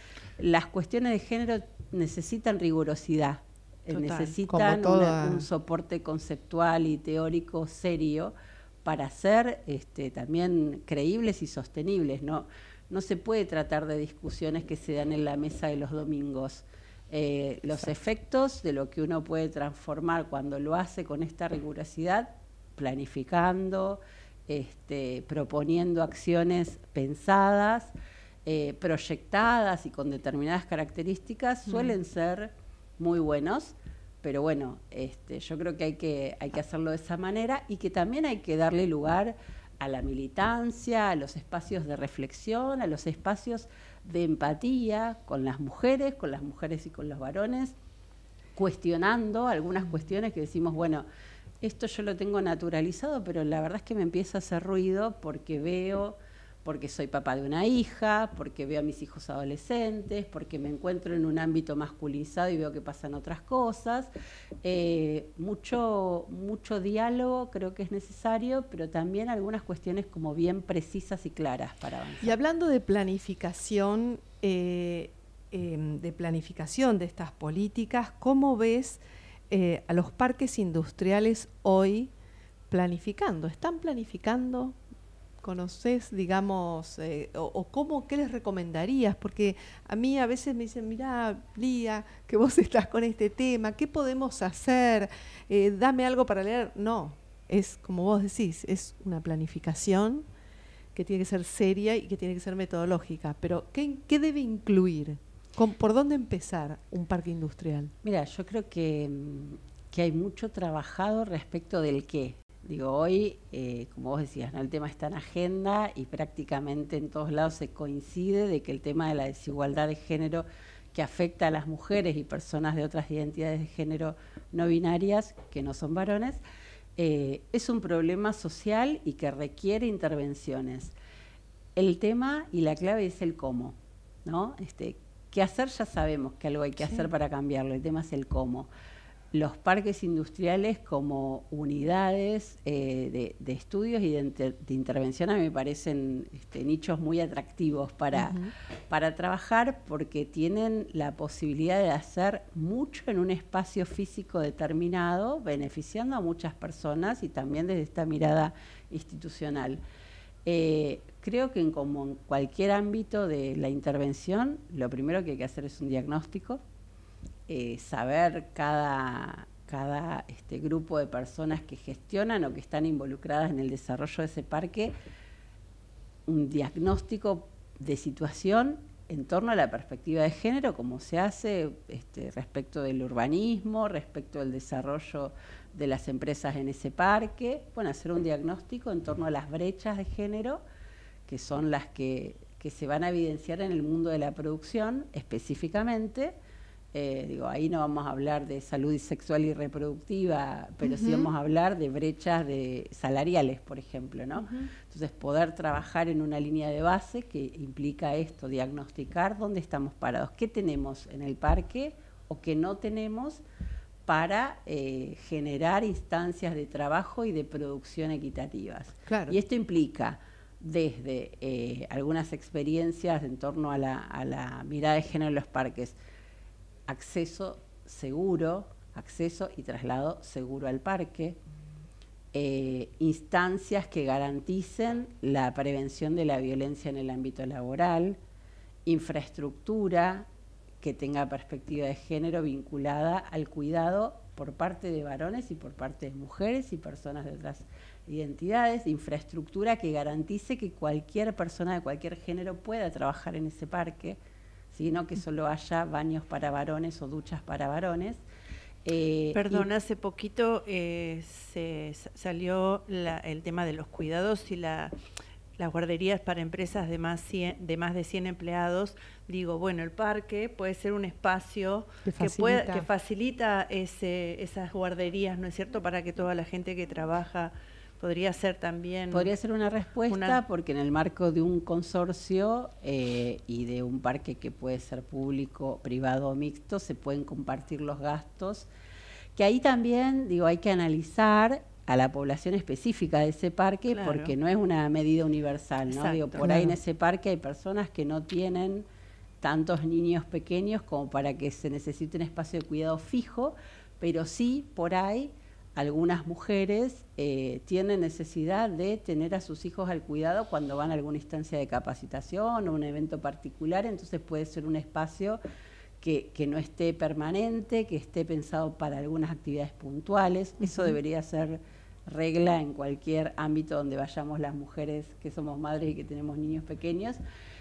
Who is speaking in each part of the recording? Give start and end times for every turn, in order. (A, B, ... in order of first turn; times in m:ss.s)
0:00.4-0:27.9 A
0:03.9-0:04.4 B
0:04.5-0:05.5 C
0:28.4-0:47.8 A
0:48.6-0:51.0 A
0:51.6-1:04.1 A
1:04.6-1:12.4 A
1:12.2-1:22.1 C
1:22.7-1:24.8 C
1:25.4-1:40.2 C
1:41.0-1:47.9 C
1:48.0-2:06.4 A
2:07.0-2:11.0 A
2:11.8-2:18.7 A
2:19.3-2:39.8 A
2:28.1-2:28.5 C
2:40.4-2:46.6 A
2:47.5-2:54.9 A
2:56.3-3:10.6 A
3:11.3-3:16.3 A
3:16.9-3:33.4 A
3:20.8-3:21.3 C
3:34.1-3:46.0 A
3:39.1-3:39.4 C
3:46.9-3:51.4 A
3:52.3-3:58.2 A
3:58.8-4:00.3 A
4:00.8-4:14.2 A
4:14.7-4:18.2 A
4:18.8-4:19.7 A
4:19.3-4:25.0 B
4:25.6-4:39.3 B
4:32.0-4:32.9 C
4:39.1-4:48.7 A
4:40.1-4:40.4 B
4:49.4-4:58.9 A
4:53.9-4:54.3 B
4:55.9-4:56.5 B
4:56.4-4:56.8 C
4:59.4-5:15.4 A
5:16.0-5:27.2 A